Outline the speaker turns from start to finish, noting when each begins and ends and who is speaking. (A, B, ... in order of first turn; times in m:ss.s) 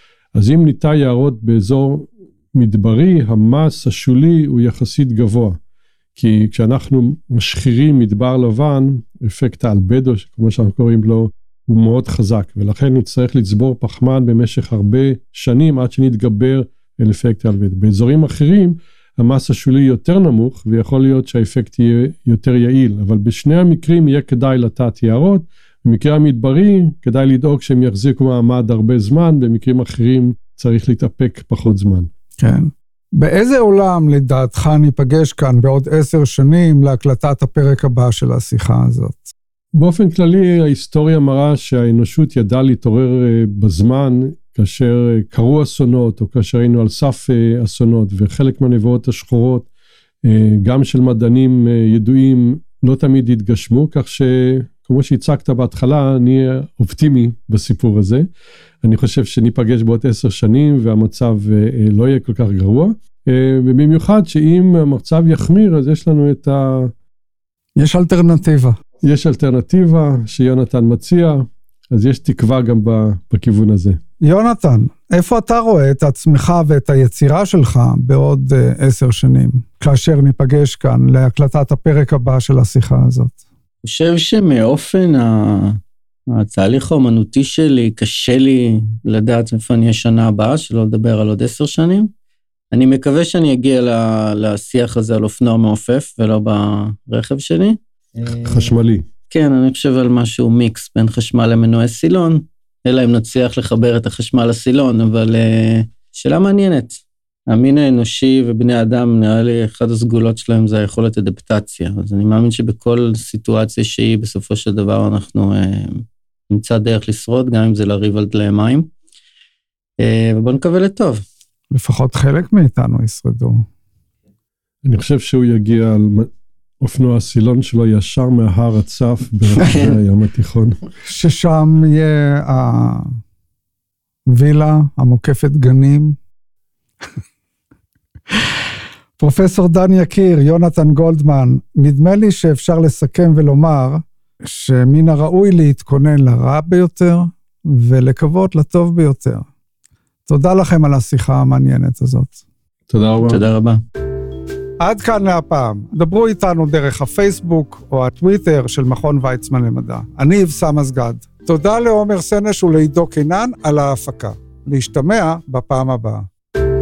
0:00.3-0:05.6 A
0:06.2-0:32.1 A
0:32.4-0:39.3 B
0:39.8-0:49.7 A
0:50.2-0:58.2 A
0:58.8-1:06.9 A
1:07.8-1:08.7 B
1:09.0-1:14.0 A
1:14.2-1:23.4 B
1:23.8-1:25.8 C
1:26.3-1:32.1 C
1:32.7-1:38.7 C
1:38.3-1:39.0 A
1:39.3-1:58.9 C
2:00.0-2:01.2 C
2:01.7-2:03.6 B
2:04.8-2:06.3 A
2:06.8-2:10.8 A
2:09.6-2:10.0 C
2:11.1-2:13.1 B
2:14.3-2:16.2 B
2:19.2-2:29.5 B
2:30.2-2:32.4 B
2:32.9-2:33.4 A
2:33.3-2:33.8 C
2:34.8-2:46.3 B